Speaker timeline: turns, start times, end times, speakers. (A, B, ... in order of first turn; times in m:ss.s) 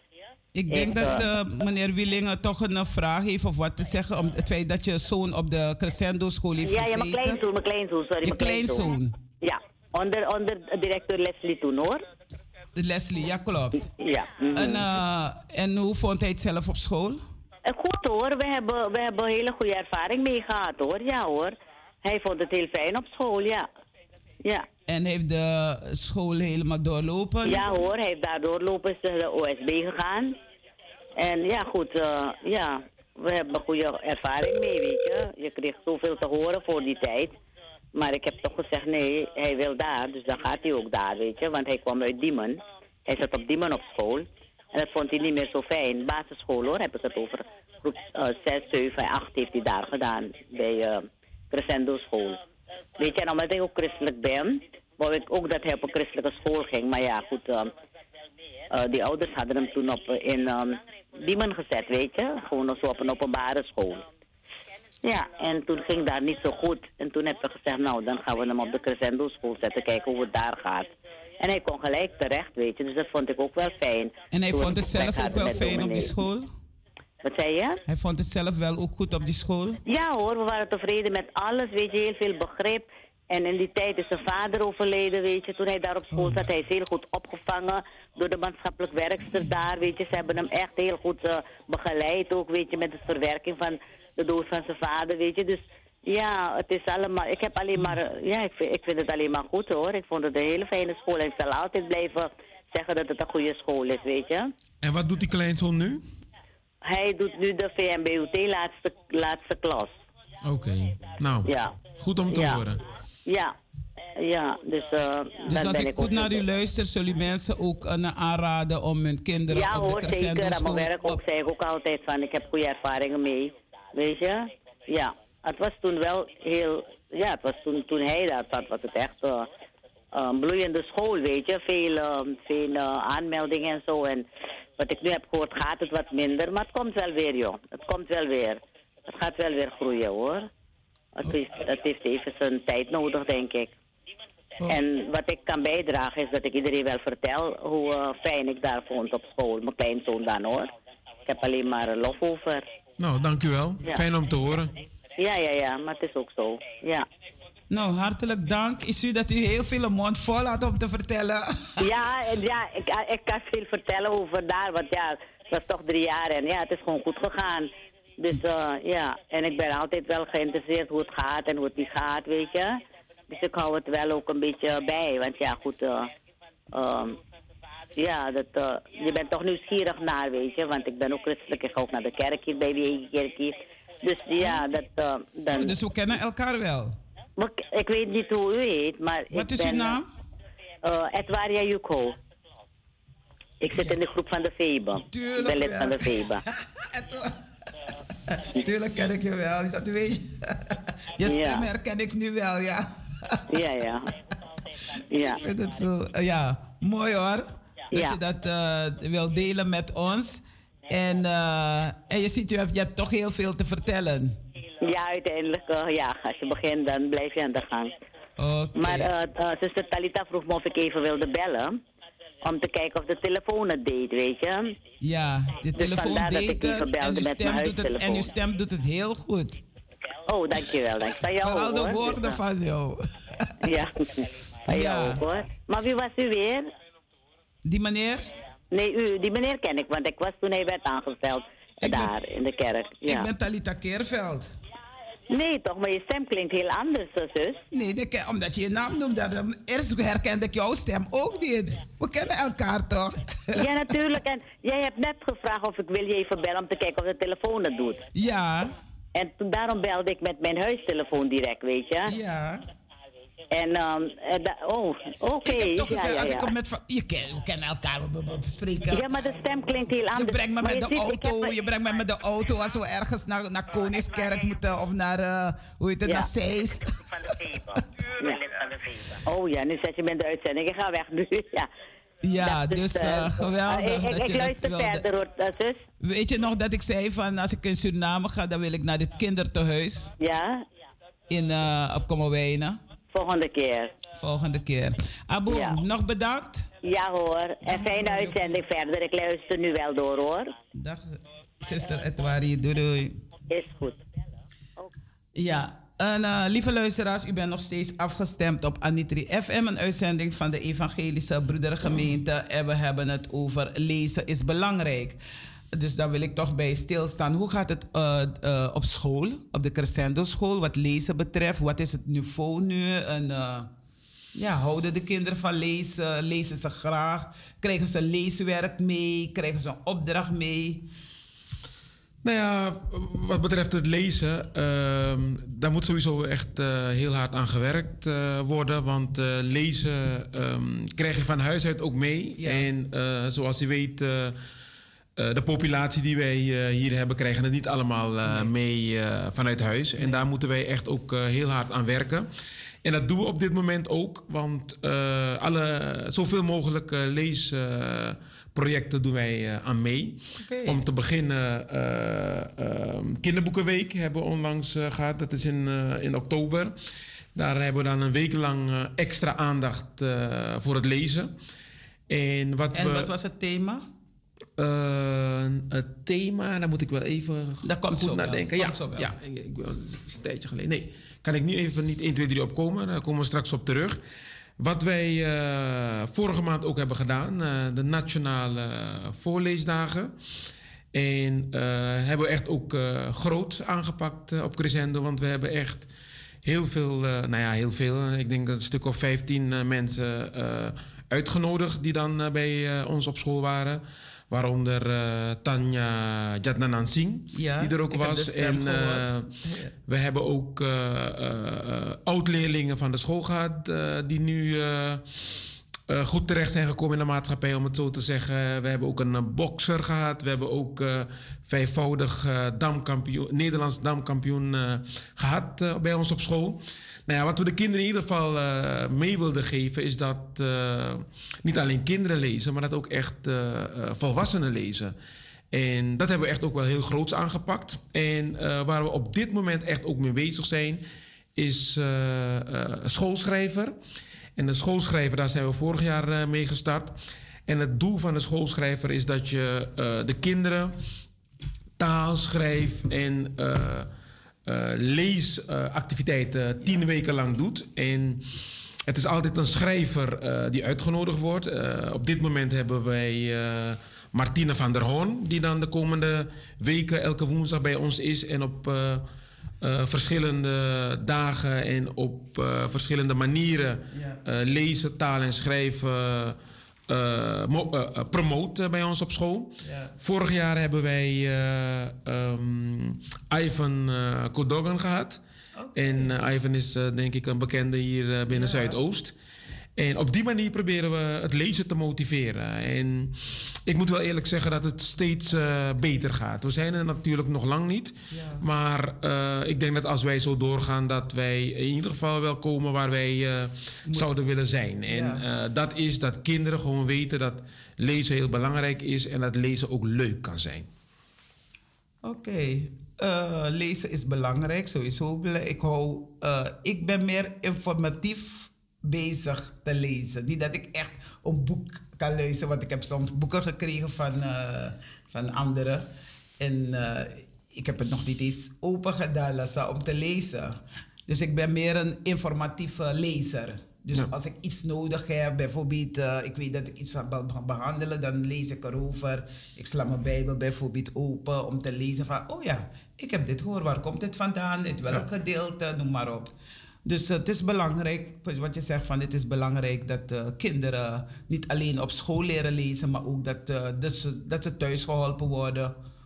0:00.6-0:07.4 A
0:00.7-0:01.3 B
0:06.6-0:08.9 B
0:08.2-0:09.2 A
0:09.4-0:12.0 B
0:12.8-0:13.9 A
0:14.0-0:14.8 B
0:14.6-0:17.2 A
0:17.7-0:23.7 B
0:24.9-0:27.7 A
0:27.4-0:30.4 B
0:31.2-0:37.3 B
0:38.0-0:52.4 B
0:53.0-0:57.7 B
0:58.8-1:04.1 B
1:05.0-1:16.1 B
1:14.3-1:16.5 A
1:17.2-1:17.8 B
1:17.9-1:19.8 A
1:19.9-1:44.5 B
1:26.1-1:26.4 A
1:44.8-1:46.0 C
1:46.8-1:49.9 B
1:50.4-1:52.8 C
1:51.5-1:52.6 B
1:53.3-1:53.5 B
1:54.2-1:56.4 B
1:55.5-2:01.2 A
1:59.5-2:09.5 B
2:10.1-2:14.3 B
2:14.8-2:20.5 B
2:21.2-2:23.7 B
2:24.7-2:30.7 B
2:31.3-2:32.6 B
2:33.0-2:34.7 C
2:35.2-2:37.1 B
2:37.7-2:41.8 A
2:41.8-2:52.8 B
2:53.3-2:56.1 B
2:56.7-2:57.2 B
2:58.0-3:05.7 B
3:05.5-3:07.0 A
3:07.4-3:10.0 B
3:09.3-3:10.1 A
3:10.8-3:12.2 B
3:13.6-3:16.4 B
3:15.1-3:17.4 A
3:18.4-3:23.4 A
3:21.2-3:21.7 B
3:23.5-3:24.1 B
3:25.1-3:25.4 B
3:25.2-3:34.4 A
3:34.8-3:37.9 B
3:38.4-3:39.1 A
3:38.8-3:41.8 B
3:42.4-3:44.8 B
3:45.0-3:49.6 A
3:45.8-3:48.3 B
3:50.3-3:52.4 B
3:51.4-3:53.8 A
3:53.7-3:56.7 B
3:54.7-3:55.2 A
3:57.6-3:58.3 A
3:58.7-4:03.3 B
4:01.8-4:02.1 A
4:03.1-4:04.5 A
4:05.3-4:07.6 B
4:07.7-4:13.6 A
4:13.5-4:18.0 B
4:18.2-4:18.8 A
4:19.2-4:22.1 B
4:22.1-4:22.6 A
4:23.5-4:26.5 B
4:25.4-4:29.1 A
4:28.9-4:31.6 B
4:30.1-4:37.0 A
4:37.6-4:37.8 A
4:38.2-4:38.5 B
4:39.2-4:41.7 B
4:42.2-4:45.0 A
4:42.4-4:45.8 B
4:46.0-4:50.1 A
4:50.2-4:50.6 B
4:51.3-4:52.8 A
4:53.1-4:54.0 B
4:54.2-4:56.7 A
4:55.5-4:55.8 B
4:56.8-5:00.5 B
4:57.7-4:58.6 A
5:00.8-5:03.2 A
5:03.5-5:04.0 B
5:05.4-5:15.2 A
5:15.7-5:23.7 A
5:24.4-5:30.9 A
5:32.2-5:44.4 C
5:42.4-5:42.7 A
5:45.2-5:52.3 C
5:50.0-5:50.2 A
5:52.8-6:06.7 C
6:00.4-6:00.8 A
6:07.4-6:11.3 C
6:12.1-6:13.1 C
6:12.7-6:13.8 A
6:14.6-6:24.0 C
6:17.6-6:19.1 A
6:24.6-6:30.1 C
6:30.9-6:35.9 C
6:36.4-6:49.3 C
6:47.4-6:49.7 A
6:49.9-6:55.0 C
6:55.9-7:15.0 C
7:15.5-7:20.8 C
7:21.4-7:23.8 C
7:24.4-7:30.8 C
7:31.8-7:33.9 C
7:34.4-7:38.2 C
7:38.8-7:49.1 C
7:49.6-7:56.4 C
7:53.9-7:54.2 A
7:56.9-8:05.2 C
7:59.6-7:59.9 A
8:05.6-8:06.1 A
8:05.8-8:09.1 C
8:08.3-8:08.8 A
8:09.8-8:30.7 C
8:18.1-8:18.4 A
8:23.9-8:24.3 A
8:24.9-8:25.2 A
8:32.0-8:45.8 A
8:46.4-9:06.3 A
9:06.8-9:15.8 A